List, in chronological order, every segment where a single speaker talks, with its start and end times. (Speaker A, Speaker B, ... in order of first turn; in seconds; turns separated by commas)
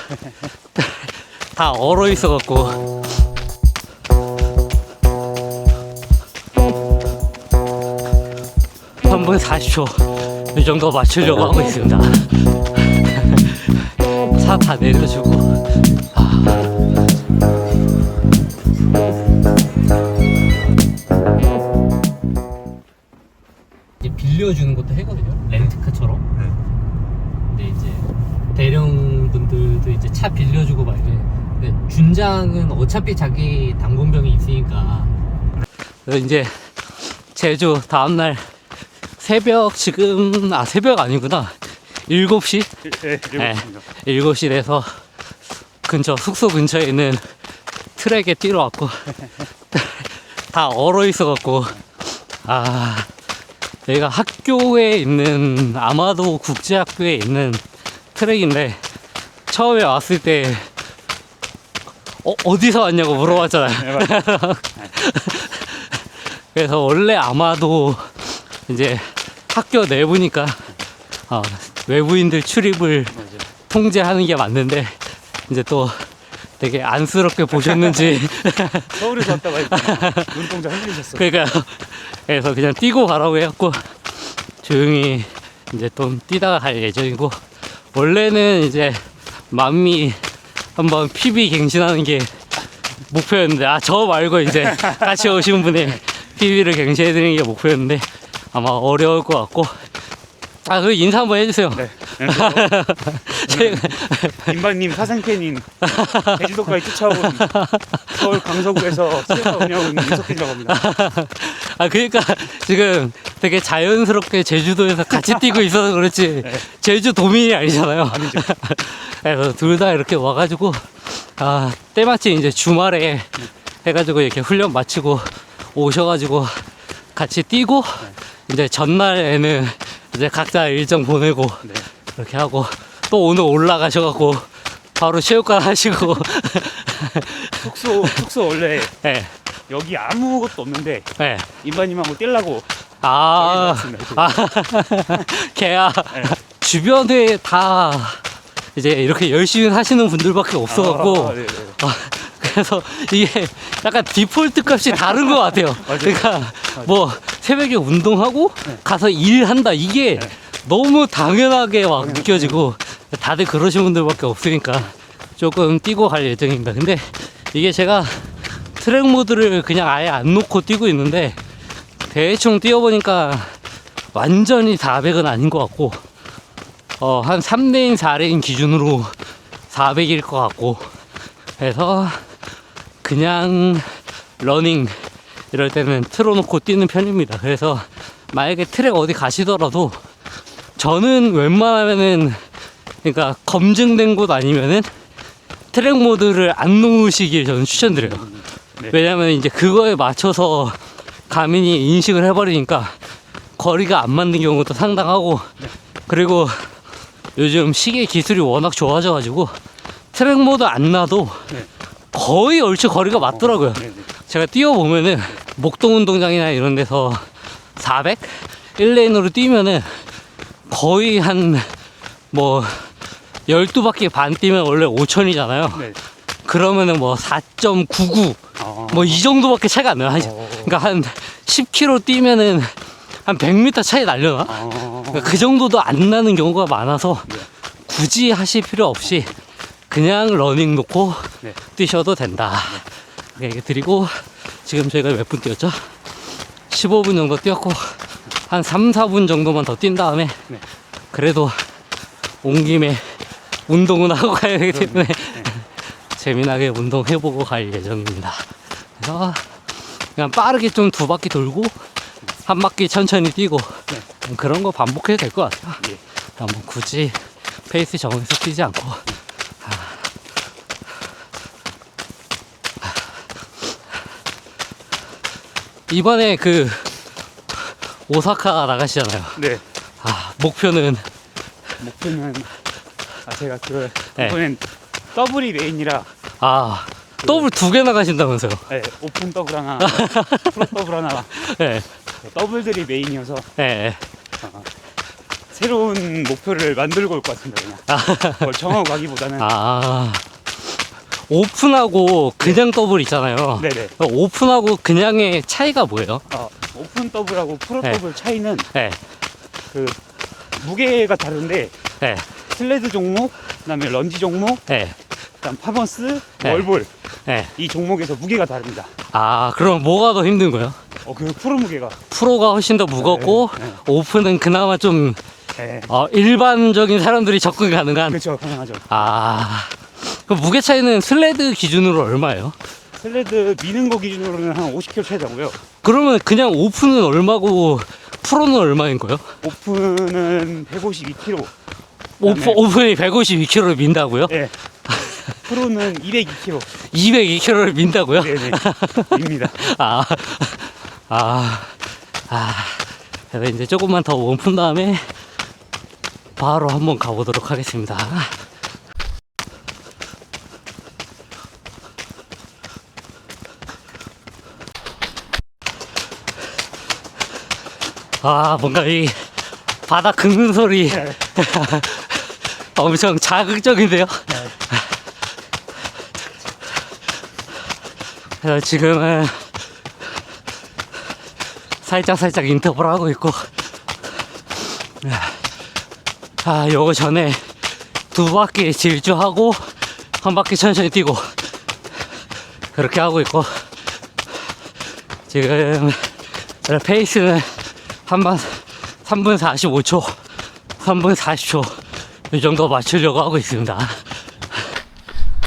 Speaker A: 0.8-2.9, Speaker A: 9.0-16.7, Speaker A: 24.0-26.3, Speaker A: 27.5-35.1, Speaker A: 36.0-38.5, Speaker A: 39.2-42.8, Speaker B: 42.8-43.8, Speaker A: 43.4-45.0, Speaker A: 45.8-47.3, Speaker A: 48.0-49.1, Speaker A: 49.7-51.8, Speaker A: 52.4-53.1, Speaker A: 53.9-57.6, Speaker A: 58.1-58.8, Speaker A: 59.5-60.7, Speaker A: 62.2-70.7, Speaker B: 63.8-64.1, Speaker A: 71.3-84.0, Speaker B: 73.1-73.5, Speaker B: 77.6-78.1, Speaker B: 78.9-81.2, Speaker A: 84.6-87.4, Speaker A: 87.9-90.2, Speaker A: 90.7-92.3, Speaker A: 93.1-99.8, Speaker A: 100.6-104.6, Speaker B: 101.7-102.7, Speaker B: 103.4-107.5, Speaker A: 105.8-138.2, Speaker B: 108.1-110.8, Speaker B: 118.1-118.5, Speaker B: 137.6-138.9, Speaker A: 138.9-139.3, Speaker B: 139.7-141.1, Speaker A: 141.2-141.5, Speaker B: 141.6-142.7, Speaker A: 143.0-148.2, Speaker B: 143.3-144.4, Speaker A: 148.7-171.4, Speaker B: 150.7-151.8, Speaker B: 155.8-156.3, Speaker B: 162.0-162.6, Speaker A: 172.0-173.6, Speaker A: 174.1-176.0, Speaker A: 177.0-179.2, Speaker A: 179.7-180.9, Speaker A: 181.6-182.2, Speaker A: 183.0-190.0, Speaker A: 190.8-192.4, Speaker A: 193.0-194.9, Speaker A: 195.7-198.3, Speaker B: 198.0-198.9, Speaker A: 198.9-203.0, Speaker A: 203.6-205.5, Speaker A: 206.1-206.7, Speaker A: 207.3-209.6, Speaker A: 210.1-211.5, Speaker A: 212.1-220.0, Speaker B: 213.3-214.1, Speaker A: 220.7-221.7, Speaker A: 222.3-222.9, Speaker A: 223.5-225.9, Speaker A: 226.4-239.3, Speaker B: 228.6-229.2, Speaker B: 230.2-230.7, Speaker B: 234.5-235.4, Speaker A: 239.9-245.9, Speaker A: 246.7-250.4, Speaker A: 251.1-251.7, Speaker A: 252.4-261.8, Speaker B: 254.7-255.5, Speaker A: 262.4-265.8, Speaker A: 266.4-269.1, Speaker A: 269.6-270.0, Speaker A: 275.9-276.9, Speaker A: 278.1-279.4, Speaker B: 279.4-279.6, Speaker A: 280.0-281.0, Speaker B: 281.8-282.5, Speaker B: 283.2-286.1, Speaker A: 286.4-288.7, Speaker B: 288.7-291.3, Speaker A: 289.8-290.6, Speaker A: 291.3-291.9, Speaker B: 292.2-293.5, Speaker A: 293.6-294.0, Speaker B: 294.4-294.7, Speaker B: 295.5-297.8, Speaker A: 297.9-298.6, Speaker B: 298.4-299.5, Speaker A: 299.4-300.2, Speaker A: 301.2-306.2, Speaker B: 303.6-303.9, Speaker B: 306.3-308.7, Speaker A: 308.7-309.0, Speaker B: 309.7-310.0, Speaker B: 310.6-311.8, Speaker A: 312.0-312.3, Speaker B: 312.5-314.6, Speaker A: 314.7-315.0, Speaker B: 315.4-316.9, Speaker A: 317.2-317.5, Speaker B: 317.6-318.9, Speaker A: 319.1-320.8, Speaker B: 321.0-322.0, Speaker A: 322.1-325.2, Speaker B: 323.0-323.8, Speaker B: 325.6-325.9, Speaker A: 325.9-328.2, Speaker B: 328.1-329.0, Speaker A: 328.9-332.6, Speaker B: 333.0-335.6, Speaker A: 335.8-339.3, Speaker B: 339.4-341.5, Speaker A: 342.2-345.4, Speaker B: 342.2-342.6, Speaker B: 344.3-344.5, Speaker B: 345.4-346.7, Speaker A: 346.8-355.2, Speaker B: 348.1-349.7, Speaker A: 356.4-358.3, Speaker A: 368.2-374.9, Speaker A: 378.4-379.6, Speaker A: 381.8-383.5, Speaker A: 385.0-385.5, Speaker A: 386.4-391.5, Speaker A: 392.7-393.7, Speaker A: 395.3-404.2